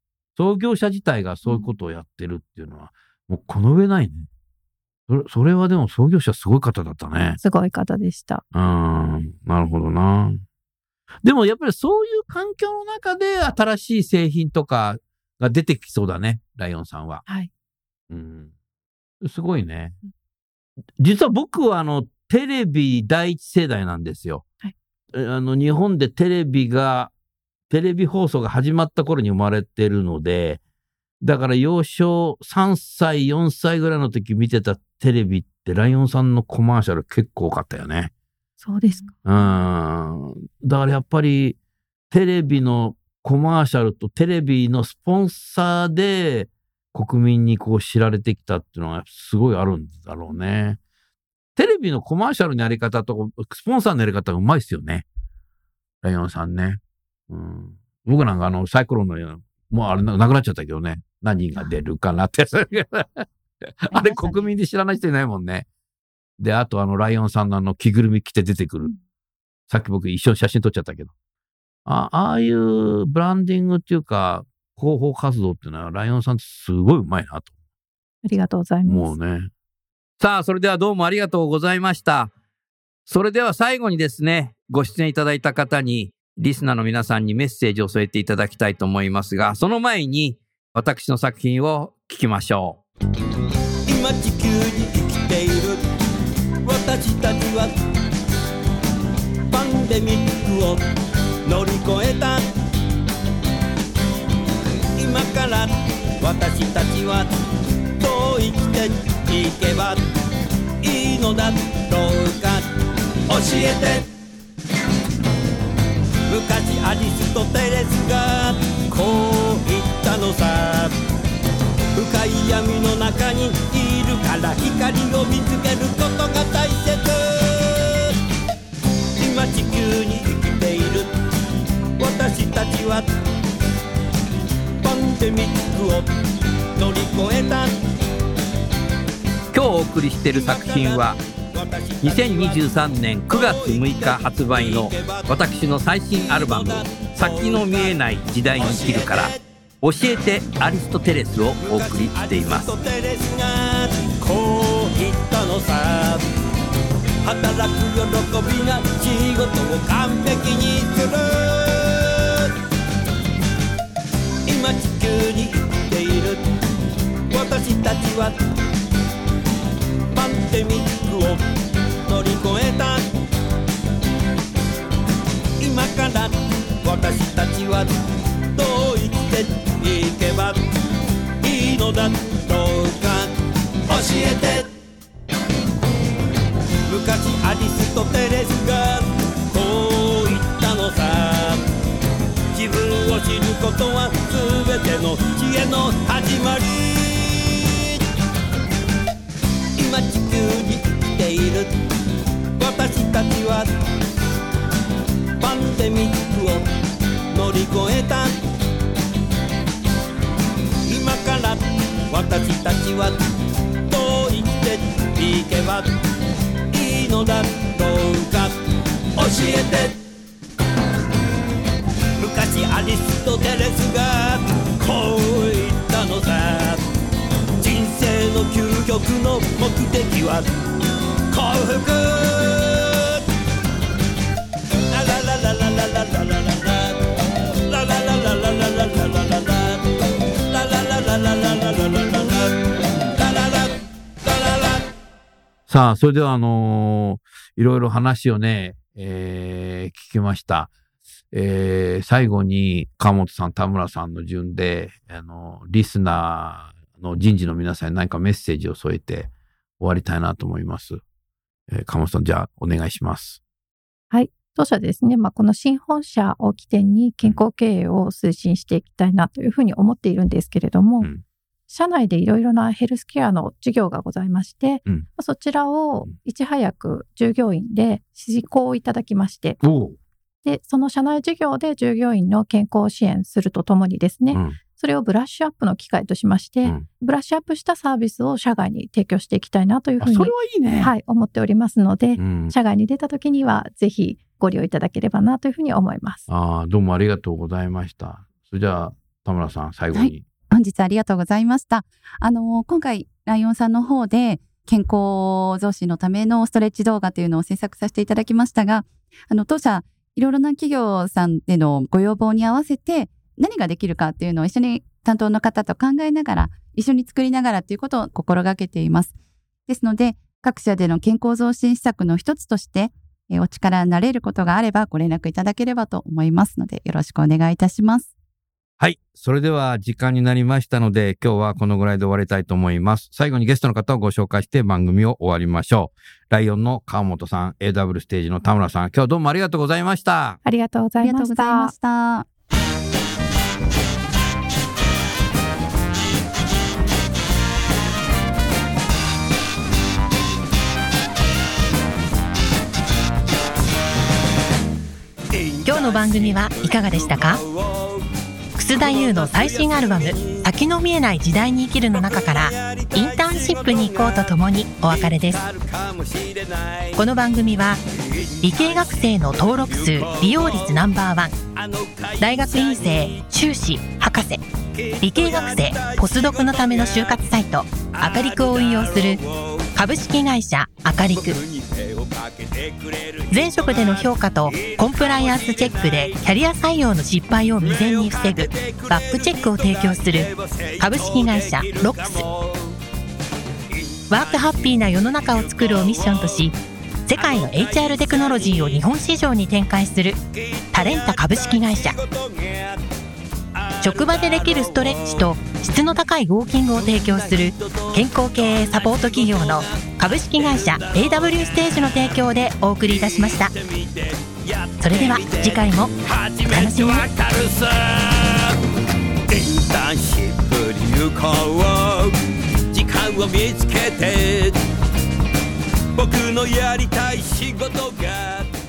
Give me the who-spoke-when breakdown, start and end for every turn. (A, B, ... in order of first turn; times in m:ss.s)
0:00.4-0:04.3 A
0:05.1-0:07.4 A
0:07.4-0:08.4 B
0:08.5-0:10.4 A
0:11.2-0:17.2 A
0:18.1-0:18.5 A
0:19.2-0:20.0 A
0:21.0-0:24.4 A
0:25.1-0:27.1 A
0:27.7-0:30.6 A
0:31.2-0:38.1 A
0:38.6-0:39.1 B
0:39.2-0:41.6 A
0:42.1-0:50.8 A
0:51.6-0:55.0 A
0:56.0-1:05.6 A
1:03.9-1:04.5 C
1:06.4-1:08.9 A
1:09.7-1:11.1 A
1:11.8-1:17.5 A
1:18.2-1:19.1 B
1:18.8-1:19.5 A
1:20.2-1:22.3 A
1:23.1-1:32.8 A
1:33.9-1:35.8 D
1:36.6-1:37.7 D
1:39.5-1:40.8 D
1:41.4-1:42.4 D
1:45.0-1:47.3 D
1:48.0-1:50.0 D
1:50.8-1:52.6 D
1:53.3-1:54.1 D
1:56.3-2:00.9 D
2:01.9-2:08.1 D
2:09.2-2:11.1 D
2:12.0-2:13.0 D
2:14.8-2:16.1 D
2:16.8-2:17.8 D
2:19.5-2:21.2 A
2:20.3-2:22.7 D
2:22.0-2:32.7 A
2:23.3-2:25.4 D
2:26.1-2:28.0 D
2:28.6-2:29.4 D
2:31.6-2:36.2 D
2:37.2-2:42.5 D
2:44.4-2:46.4 D
2:47.3-2:48.4 D
2:50.1-2:51.4 D
2:52.0-2:53.0 D
2:55.6-2:57.9 D
2:58.5-3:00.6 D
3:01.4-3:03.3 D
3:03.9-3:04.7 D
3:06.9-3:11.6 D
3:12.5-3:18.0 D
3:19.8-3:21.7 D
3:22.6-3:23.7 D
3:25.4-3:26.7 D
3:27.3-3:28.4 D
3:30.8-3:33.2 D
3:33.9-3:35.9 D
3:36.7-3:38.6 D
3:39.2-3:40.0 D
3:42.2-3:46.8 D
3:47.6-3:50.5 D
3:51.3-3:53.2 D
3:54.9-3:57.0 D
3:57.7-3:59.9 D
4:00.5-4:04.8 D
4:05.7-4:10.7 A
4:11.3-4:21.0 A
4:21.7-4:23.4 A
4:24.1-4:31.1 B
4:31.7-4:39.6 B
4:39.6-4:40.0 A
4:40.4-4:56.3 B
4:44.3-4:44.6 A
4:50.0-4:50.9 A
4:52.2-4:52.6 A
4:56.3-5:00.3 A
4:59.9-5:19.1 C
5:19.7-5:28.1 C
5:28.8-5:40.4 A
5:40.4-5:41.7 B
5:41.0-5:42.3 C
5:55.3-5:58.1 D
5:55.6-5:57.4 E
5:58.6-6:05.4 E
5:58.7-6:00.5 D
6:01.9-6:07.1 D
6:07.0-6:07.8 E
6:08.0-6:10.9 D
6:08.4-6:11.3 E
6:11.5-6:13.2 D
6:12.2-6:14.4 E
6:14.7-6:17.2 D
6:15.0-6:19.2 E
6:17.8-6:19.7 D
6:19.7-6:21.4 E
6:21.0-6:26.3 D
6:23.3-6:32.2 E
6:27.6-6:32.8 D
6:33.7-6:36.5 D
6:34.1-6:36.5 E
6:37.1-6:40.2 E
6:37.1-6:38.8 D
6:40.3-6:42.8 D
6:40.7-6:42.0 E
6:43.5-6:46.0 D
6:43.8-6:53.5 E
6:46.7-6:52.2 D
6:52.8-6:58.6 D
6:54.8-6:55.9 E
6:56.4-6:57.1 E
6:59.3-7:02.2 D
7:02.7-7:04.6 D
7:06.0-7:08.5 D